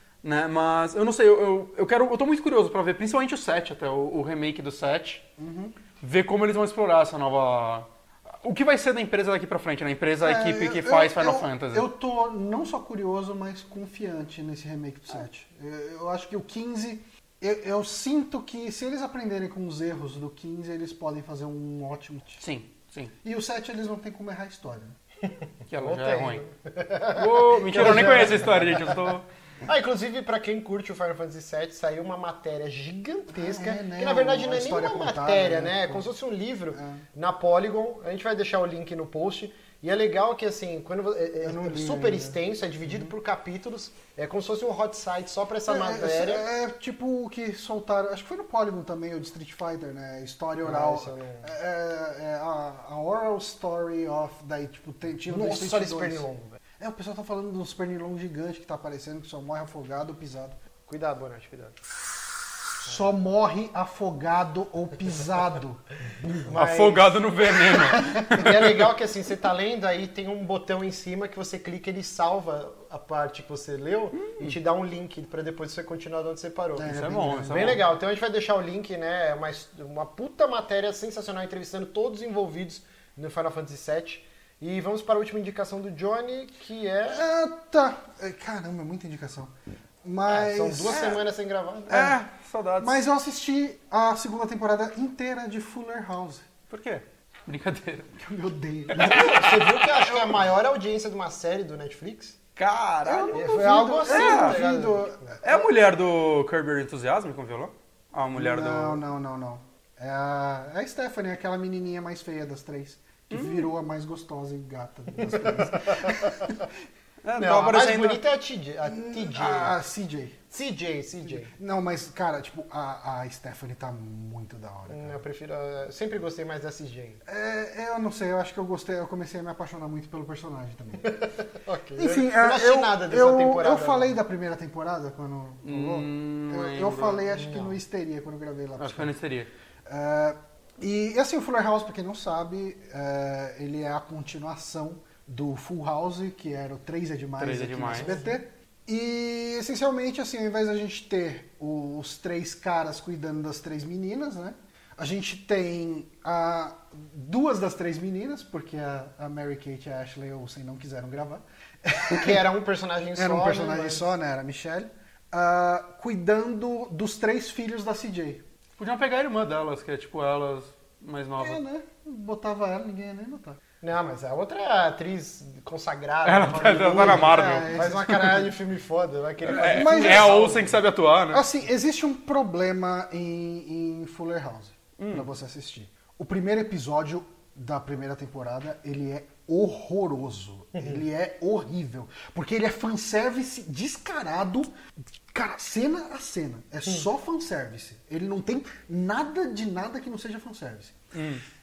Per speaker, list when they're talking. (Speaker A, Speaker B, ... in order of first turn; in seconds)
Speaker A: 0.2-5.2, 6.0-7.9, 8.4-11.9, 22.4-23.1, 25.7-26.4, 27.1-29.2, 66.5-68.7, 74.2-74.5, 76.9-77.8, 91.9-93.0, 96.7-98.1, 98.9-100.3, 102.5-103.4, 104.0-104.6, 105.4-109.0, 113.3-113.7, 117.2-118.2, 135.6-137.3, 138.8-139.5, 147.4-148.1, 168.8-171.6, 176.2-178.4, 179.4-181.4, 185.0-185.2, 201.1-201.4
Speaker B: 5.4-5.8, 10.2-22.4, 23.2-24.9, 27.6-28.9, 33.3-36.0, 36.7-37.0, 41.4-43.1, 45.7-56.2, 56.8-60.5, 62.8-66.5, 68.0-68.3, 76.8-77.8, 87.1-89.5, 90.0-91.2, 91.9-92.2, 92.8-96.5, 98.2-99.5, 103.0-105.7, 108.3-116.7, 118.8-120.4, 121.4-125.2, 127.2-131.2, 132.0-139.1, 139.9-162.4, 163.1-168.4, 171.4-173.6, 176.8-178.1, 179.5-180.7, 181.3-194.7, 195.3-201.0
Speaker C: 25.8-46.5, 50.6-51.5, 55.3-56.6, 60.9-61.8, 66.4-67.2, 68.3-87.2, 90.2-92.1, 99.0-102.4, 103.3-105.3, 115.2-116.5, 117.4-119.8, 120.5-121.5, 124.9-127.2, 131.0-134.2, 137.3-137.8, 147.9-148.4, 162.1-164.1, 173.8-180.8